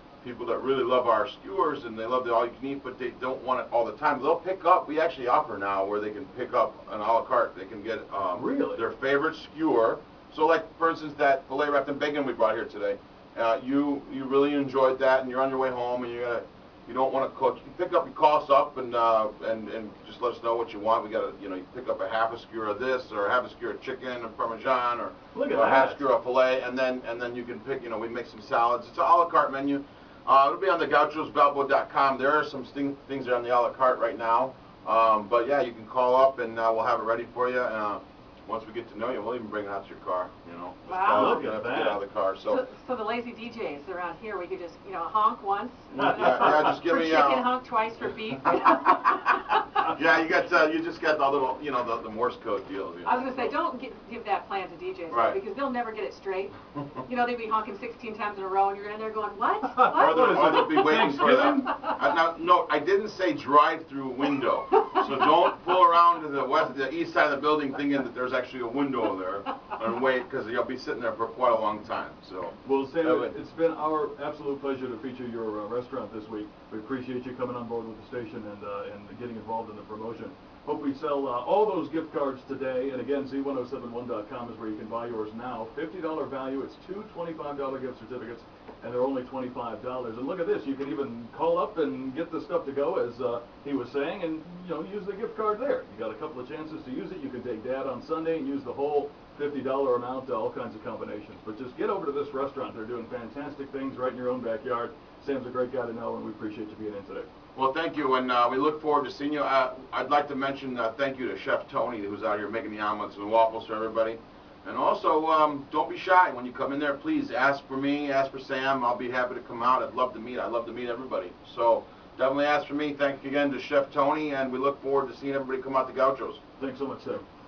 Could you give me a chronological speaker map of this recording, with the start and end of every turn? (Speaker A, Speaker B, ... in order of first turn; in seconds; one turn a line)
Speaker A: 0.2-42.6
Speaker B: 8.3-8.8
Speaker B: 25.3-26.0
Speaker C: 40.9-41.5
Speaker B: 41.1-42.0
Speaker C: 42.4-49.8
Speaker A: 45.9-47.5
Speaker B: 46.0-46.7
Speaker A: 49.8-53.5
Speaker C: 53.0-61.9
Speaker A: 55.1-55.4
Speaker B: 59.7-61.8
Speaker A: 59.9-73.3
Speaker B: 72.7-107.3
Speaker A: 107.5-126.4
Speaker B: 126.6-127.2